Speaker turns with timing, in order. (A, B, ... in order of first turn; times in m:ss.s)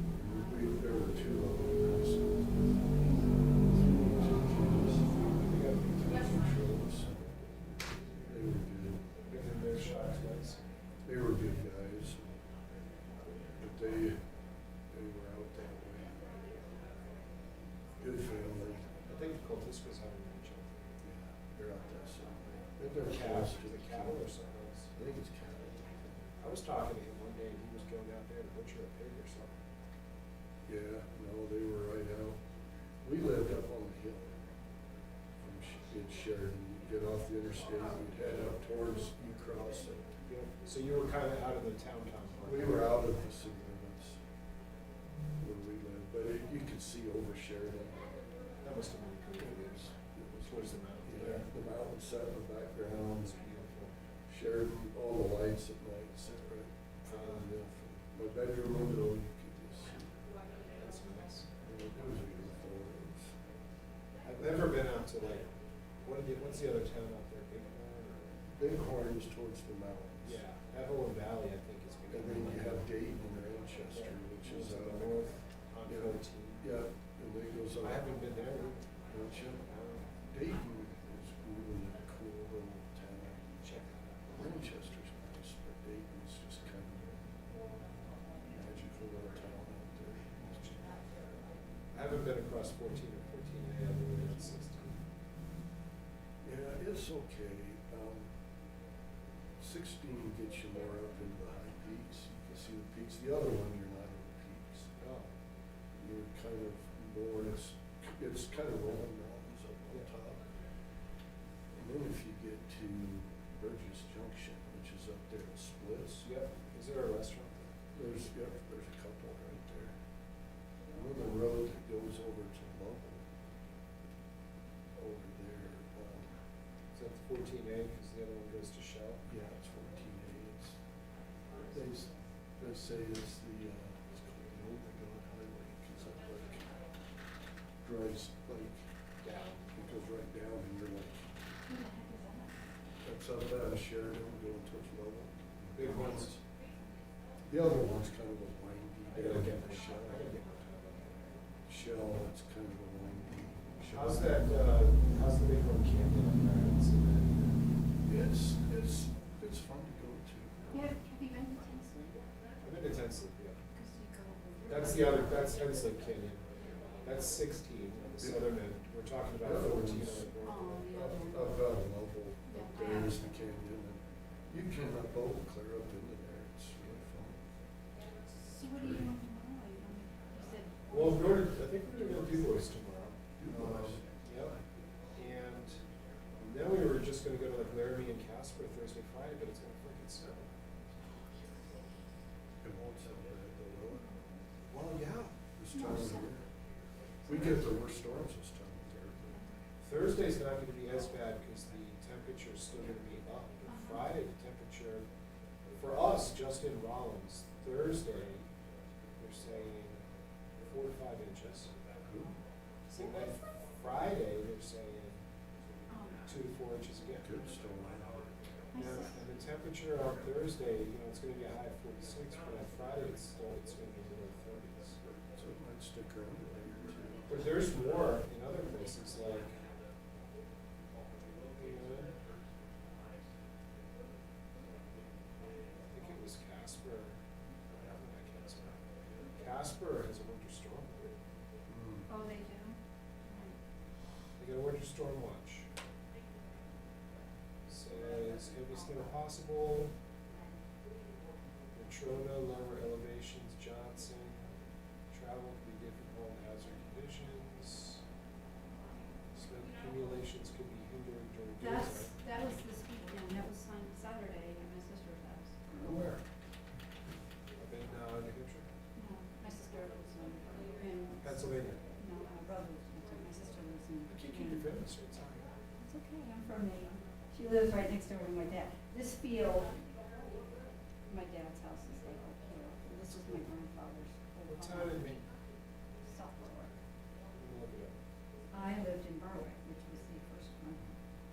0:00.1-0:02.7 A
0:03.7-0:07.3 A
0:05.4-0:06.3 B
0:08.3-0:09.0 A
0:09.3-0:10.6 B
0:11.1-0:12.4 A
0:13.6-0:14.2 A
0:14.9-0:16.3 A
0:18.0-0:18.9 A
0:19.1-0:20.8 B
0:21.0-0:24.2 A
0:23.0-0:24.9 B
0:25.0-0:26.1 A
0:26.4-0:29.5 B
0:30.7-0:32.4 A
0:33.0-0:34.4 A
0:35.4-0:40.0 A
0:40.3-0:42.9 B
0:42.4-0:44.2 A
0:45.4-0:48.0 A
0:48.6-0:51.5 B
0:49.4-0:53.4 A
0:53.2-0:53.9 B
0:54.3-1:00.2 A
0:57.1-0:57.5 B
1:00.8-1:01.5 B
1:01.6-1:03.4 A
1:04.2-1:05.5 B
1:06.0-1:08.4 B
1:08.5-1:10.4 A
1:10.2-1:12.8 B
1:12.1-1:15.2 A
1:13.9-1:16.7 B
1:15.9-1:18.0 A
1:17.8-1:18.8 B
1:19.1-1:19.7 A
1:19.7-1:20.1 B
1:20.3-1:23.6 A
1:23.6-1:24.4 B
1:24.3-1:27.2 A
1:28.5-1:30.9 A
1:31.9-1:35.0 B
1:36.4-1:38.3 A
1:39.6-1:44.9 A
1:45.0-1:45.3 B
1:46.0-1:50.4 A
1:51.7-1:56.3 A
1:56.2-1:57.8 B
1:58.0-2:00.0 A
2:00.9-2:03.2 A
2:05.0-2:06.3 A
2:07.0-2:09.2 B
2:09.3-2:10.8 A
2:11.6-2:16.7 A
2:17.8-2:18.8 A
2:19.2-2:19.8 B
2:19.8-2:21.3 A
2:21.7-2:22.6 C
2:23.0-2:26.4 A
2:25.8-2:26.4 B
2:26.7-2:27.0 C
2:27.5-2:30.3 A
2:29.1-2:31.1 B
2:31.7-2:34.4 A
2:33.9-2:37.6 B
2:38.0-2:40.8 A
2:40.7-2:42.2 C
2:42.6-2:43.6 B
2:43.7-2:45.4 C
2:44.7-2:46.4 B
2:47.0-2:50.9 B
2:48.2-2:48.5 A
2:49.4-2:50.3 A
2:50.4-2:51.6 C
2:50.9-2:57.4 A
2:52.5-2:53.3 C
2:58.3-3:01.4 C
3:00.9-3:04.6 B
3:03.4-3:04.0 A
3:05.2-3:05.8 B
3:06.4-3:10.5 B
3:12.6-3:14.1 A
3:13.9-3:14.4 C
3:14.7-3:15.4 B
3:15.6-3:16.4 A
3:15.7-3:16.3 C
3:17.3-3:19.4 A
3:19.8-3:25.0 B
3:23.7-3:24.1 C
3:25.8-3:28.5 B
3:29.2-3:30.0 B
3:30.6-3:31.7 B
3:32.0-3:32.3 A
3:32.9-3:35.2 B
3:35.9-3:36.2 C
3:36.2-3:37.3 B
3:37.2-3:38.2 A
3:38.7-3:39.2 C
3:38.7-3:45.0 B
3:45.4-3:47.4 A
3:47.3-3:49.5 B
3:51.5-3:52.1 B
3:55.9-3:57.2 B
3:57.7-3:58.8 B
3:59.4-4:01.0 B
4:01.7-4:02.1 A
4:02.1-4:03.6 C
4:04.4-4:05.7 B
4:07.7-4:09.9 B
4:11.8-4:14.4 B
4:15.1-4:18.0 B
4:19.3-4:22.2 B
4:21.6-4:26.0 C
4:25.7-4:26.2 B
4:27.6-4:28.7 B
4:29.0-4:31.4 C
4:31.2-4:31.8 B
4:32.0-4:34.7 C
4:34.1-4:35.5 B
4:35.8-4:39.7 C
4:41.1-4:45.2 C
4:44.5-4:45.2 B
4:46.0-4:46.8 C
4:47.4-4:47.9 B
4:48.5-4:51.0 C